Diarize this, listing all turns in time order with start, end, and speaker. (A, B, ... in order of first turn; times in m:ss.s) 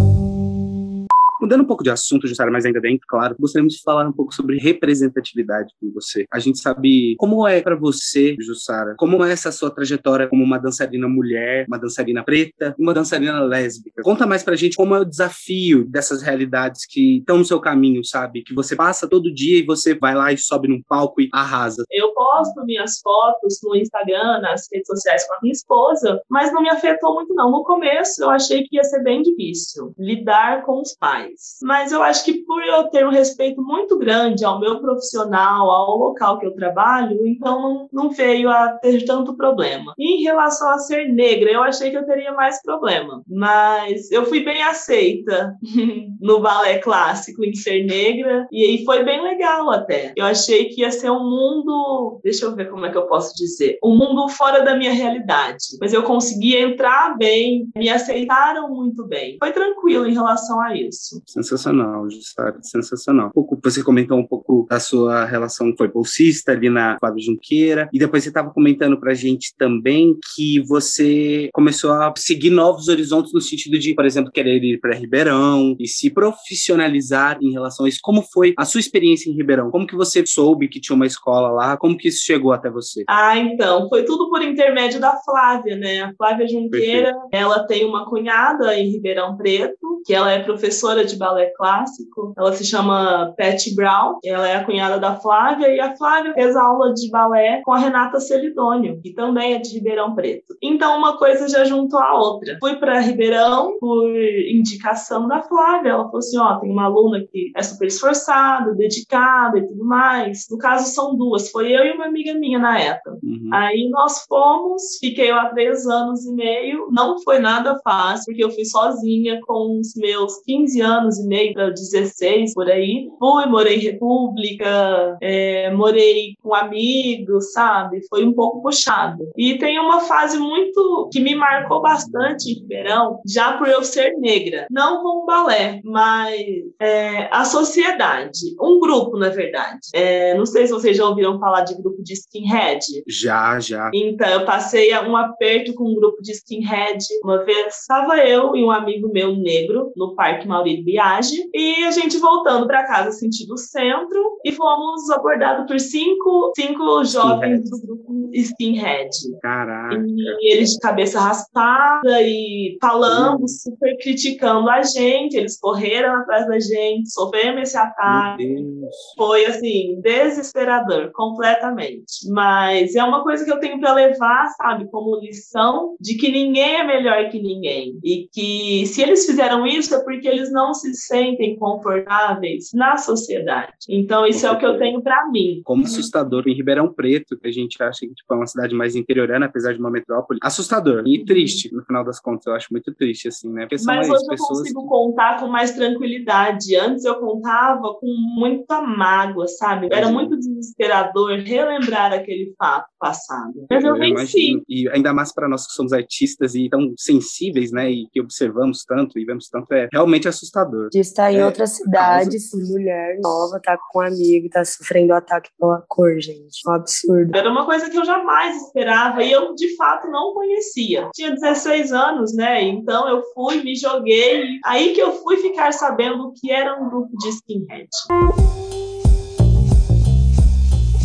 0:01.4-0:21.9 A
0:21.9-1:01.2 B
1:01.3-1:23.1 A
1:23.1-2:23.0 B
1:26.7-1:27.1 A
1:53.2-1:53.6 A
2:23.1-2:23.9 A
2:23.9-2:48.6 B
2:37.1-2:37.7 A
2:39.4-2:40.4 A
2:43.1-2:43.6 A
2:48.0-2:49.2 A
2:49.2-3:06.0 B
3:04.3-3:04.9 A
3:05.6-3:14.9 A
3:13.8-3:24.6 B
3:19.9-3:20.3 A
3:23.7-3:32.4 A
3:30.9-3:37.4 C
3:37.3-3:48.1 B